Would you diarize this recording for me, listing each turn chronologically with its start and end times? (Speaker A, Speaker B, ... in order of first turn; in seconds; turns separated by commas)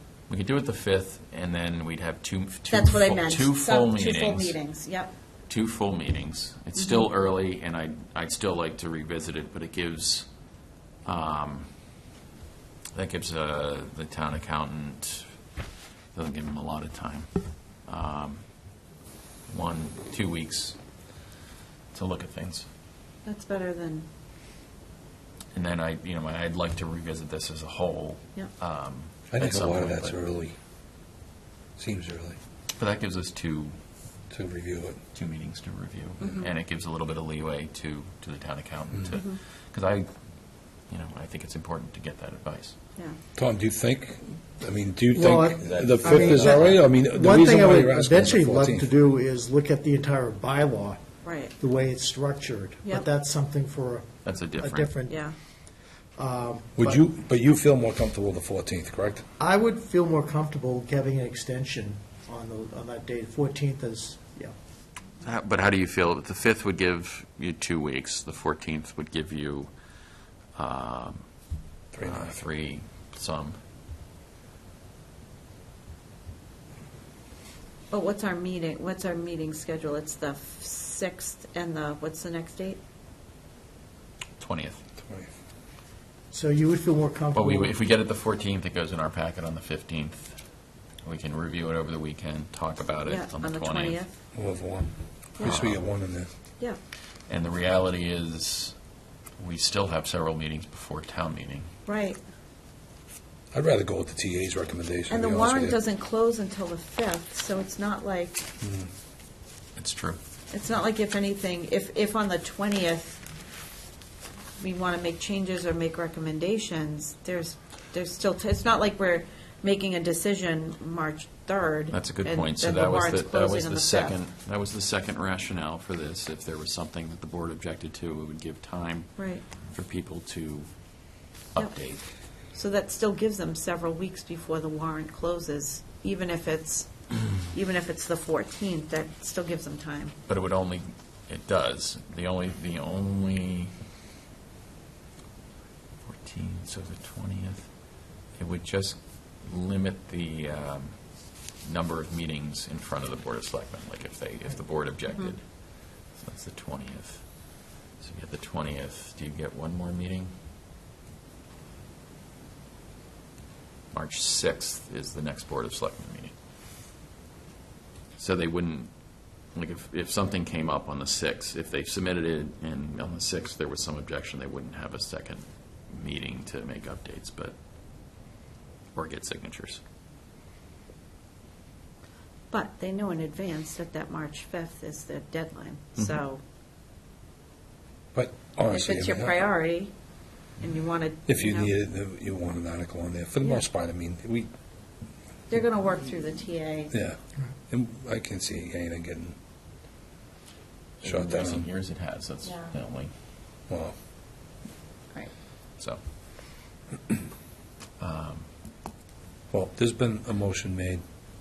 Speaker A: 0.3-4.6, Speaker B: 2.7-5.1, Speaker A: 5.5-10.3, Speaker B: 6.8-7.0, Speaker A: 11.0-11.7, Speaker A: 12.9-15.3, Speaker A: 16.1-17.3, Speaker A: 17.8-18.4, Speaker A: 19.5-20.8, Speaker A: 21.9-22.7, Speaker B: 23.2-24.1, Speaker A: 25.5-30.2, Speaker C: 29.3-30.6, Speaker C: 31.8-32.4, Speaker A: 32.7-33.8, Speaker C: 34.3-35.0, Speaker A: 35.1-40.1, Speaker B: 36.2-36.5, Speaker B: 39.1-39.4, Speaker A: 40.9-42.8, Speaker C: 43.4-48.9, Speaker D: 45.1-51.0, Speaker A: 45.6-46.8, Speaker B: 51.2-51.5, Speaker D: 51.6-55.2, Speaker A: 54.2-54.9, Speaker B: 55.1-55.3, Speaker D: 56.1-57.0, Speaker C: 56.8-59.2, Speaker D: 59.4-64.5, Speaker A: 65.2-69.7, Speaker A: 70.5-71.2, Speaker C: 71.9-72.3, Speaker A: 72.0-73.6, Speaker B: 77.9-82.8, Speaker A: 84.4-84.8, Speaker D: 86.3-87.8, Speaker A: 87.3-90.4, Speaker A: 91.0-94.0, Speaker B: 93.0-94.1, Speaker C: 94.3-96.3, Speaker A: 95.4-95.8, Speaker A: 97.3-98.8, Speaker A: 99.4-101.7, Speaker B: 101.8-102.2, Speaker C: 103.5-105.8, Speaker B: 105.1-108.4, Speaker C: 108.6-108.9, Speaker A: 109.8-110.2, Speaker B: 110.5-113.2, Speaker B: 114.6-124.2, Speaker A: 121.9-130.7, Speaker B: 129.2-129.4, Speaker A: 131.5-132.0, Speaker B: 132.5-140.1, Speaker A: 140.3-143.7, Speaker A: 146.0-147.7, Speaker A: 148.3-157.3, Speaker A: 158.0-160.3, Speaker A: 163.9-166.3, Speaker A: 168.2-168.9, Speaker A: 169.5-177.6, Speaker A: 178.9-179.8, Speaker B: 182.5-186.4, Speaker C: 188.1-189.4, Speaker B: 188.7-189.9, Speaker B: 190.6-191.7, Speaker C: 191.3-194.5, Speaker B: 195.5-196.9, Speaker C: 196.9-197.2, Speaker C: 197.7-199.4, Speaker C: 201.0-201.7, Speaker A: 201.0-203.1, Speaker B: 202.4-202.7, Speaker C: 203.7-203.9, Speaker A: 208.0-208.5, Speaker C: 209.5-211.0